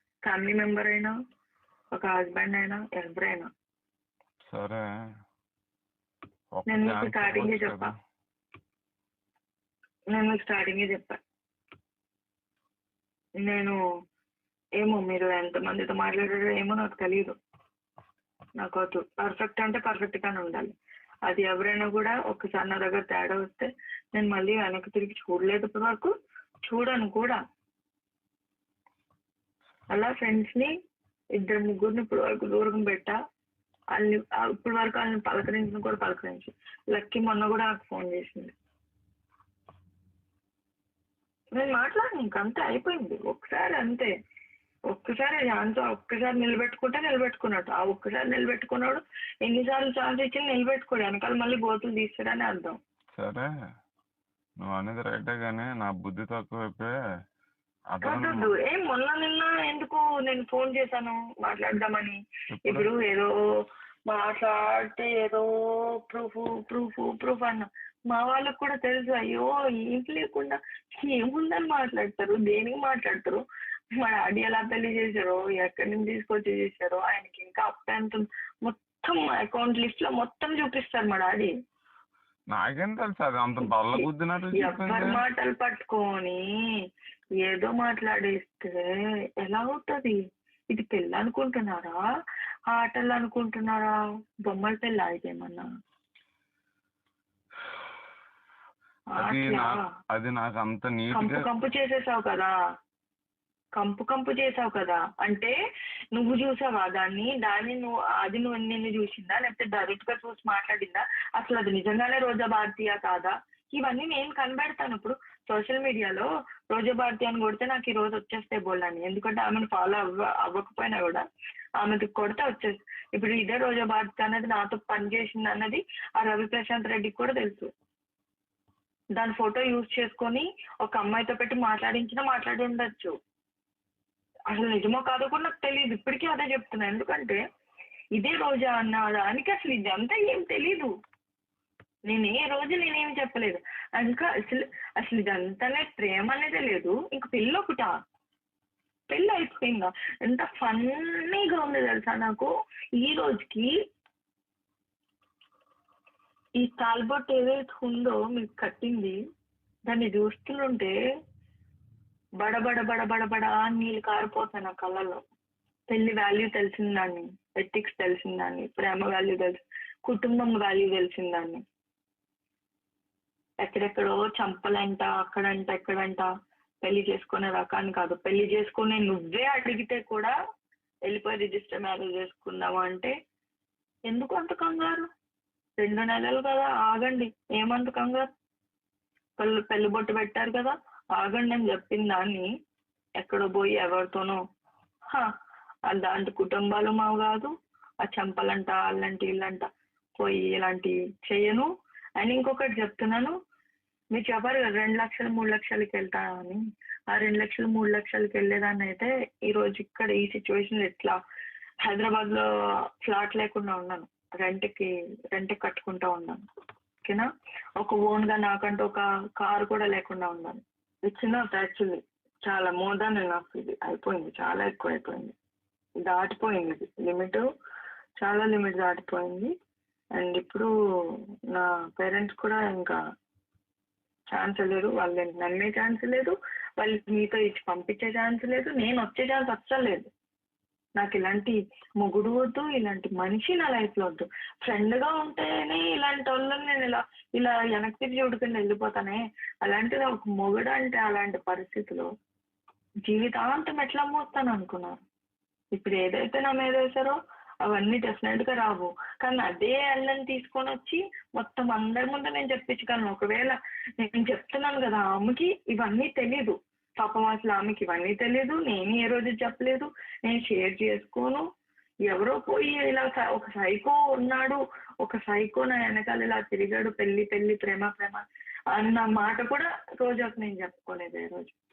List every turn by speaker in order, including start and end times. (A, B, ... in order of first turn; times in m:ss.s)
0:00.2-0:01.1 A
0:01.9-0:03.5 A
0:04.5-0:04.8 B
0:06.5-0:07.9 B
0:06.7-0:07.9 A
0:10.1-0:11.2 A
0:13.4-0:13.8 A
0:14.8-0:17.4 A
0:18.6-0:20.7 A
0:21.3-0:26.1 A
0:26.7-0:27.4 A
0:29.9-0:30.7 A
0:31.4-0:33.2 A
0:33.9-0:38.5 A
0:41.6-0:44.1 A
0:44.9-0:52.8 A
0:53.1-0:53.5 B
0:54.6-0:56.9 B
0:57.9-0:58.5 B
0:58.0-1:03.3 A
1:02.5-1:02.9 B
1:04.1-1:05.5 A
1:06.1-1:13.4 A
1:14.0-1:21.5 A
1:22.5-1:25.2 B
1:24.6-1:26.4 A
1:27.4-1:28.9 A
1:29.4-1:30.2 A
1:30.7-1:32.0 A
1:32.7-1:33.9 A
1:34.5-1:35.6 A
1:39.1-1:39.8 A
1:39.2-1:41.5 B
1:41.1-1:42.5 A
1:43.8-1:45.6 A
1:46.2-2:01.2 A
2:01.8-2:07.7 A
2:09.2-2:13.1 A
2:14.5-2:17.4 A
2:18.2-2:20.9 A
2:22.1-2:27.9 A
2:29.1-2:33.7 A
2:36.6-2:39.2 A
2:39.9-2:40.9 A
2:42.4-2:45.2 A
2:45.9-2:51.6 A
2:53.6-2:56.3 A
2:56.8-3:00.3 A
3:01.1-3:03.1 A
3:04.1-3:05.1 A
3:05.8-3:08.3 A
3:09.4-3:12.5 A
3:13.2-3:14.4 A
3:15.9-3:17.5 A
3:18.0-3:19.7 A
3:20.2-3:21.7 A
3:22.2-3:23.4 A
3:24.1-3:31.2 A
3:31.8-3:32.4 A
3:33.1-3:36.4 A
3:37.8-3:45.4 A
3:46.1-3:47.4 A
3:48.2-3:49.5 A
3:50.2-3:50.7 A
3:51.5-3:53.0 A
3:54.3-4:00.1 A
4:01.0-4:12.1 A
4:13.1-4:15.0 A
4:15.8-4:31.4 A
4:32.1-4:38.2 A
4:38.7-4:41.6 A